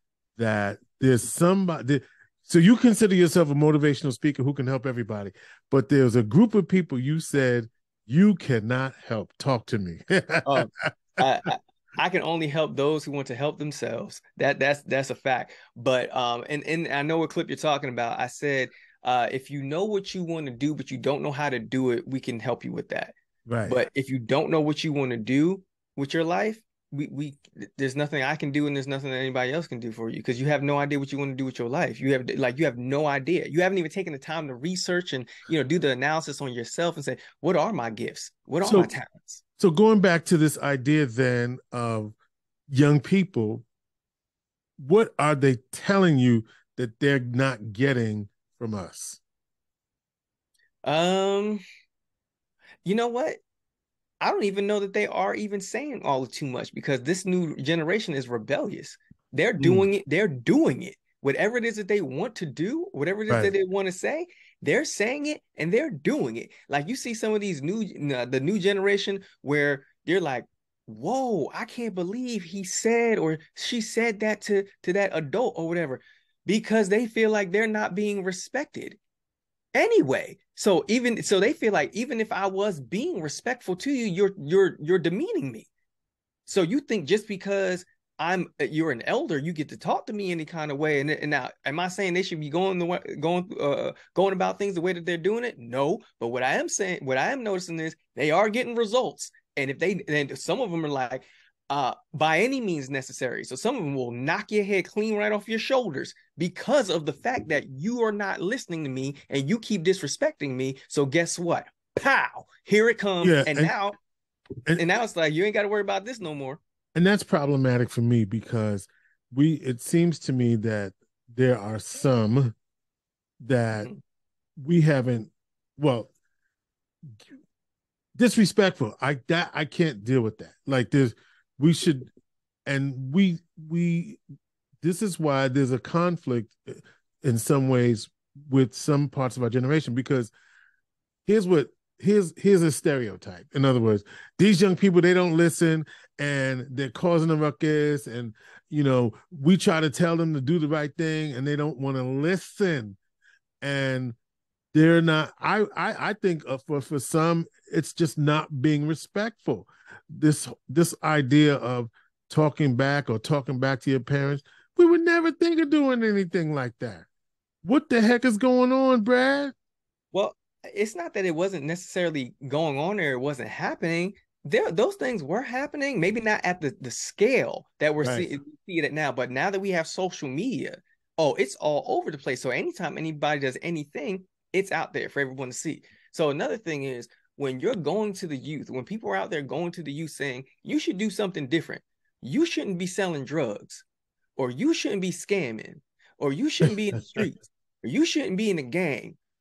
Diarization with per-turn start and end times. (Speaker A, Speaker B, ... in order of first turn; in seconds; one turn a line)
Speaker A: 0.4-10.7
Speaker B: 10.4-23.1
Speaker A: 23.5-23.8
Speaker B: 23.6-39.4
Speaker A: 38.6-38.9
Speaker A: 39.6-42.1
Speaker A: 42.7-43.6
Speaker A: 44.8-49.2
Speaker B: 50.8-51.6
Speaker B: 52.8-53.4
Speaker B: 54.2-79.0
Speaker A: 59.6-59.9
Speaker B: 79.7-85.7
Speaker B: 86.5-114.0
Speaker A: 113.2-113.7
Speaker B: 114.8-116.6
Speaker A: 116.9-122.5
Speaker A: 123.4-123.9
Speaker A: 124.6-126.1
Speaker A: 128.2-132.1
Speaker A: 132.7-134.2
Speaker A: 134.8-140.3
Speaker A: 141.2-153.0
Speaker A: 153.6-154.2
Speaker A: 154.7-167.1
Speaker A: 167.6-169.5
Speaker B: 170.1-193.8
Speaker A: 178.0-178.3
Speaker B: 194.4-199.2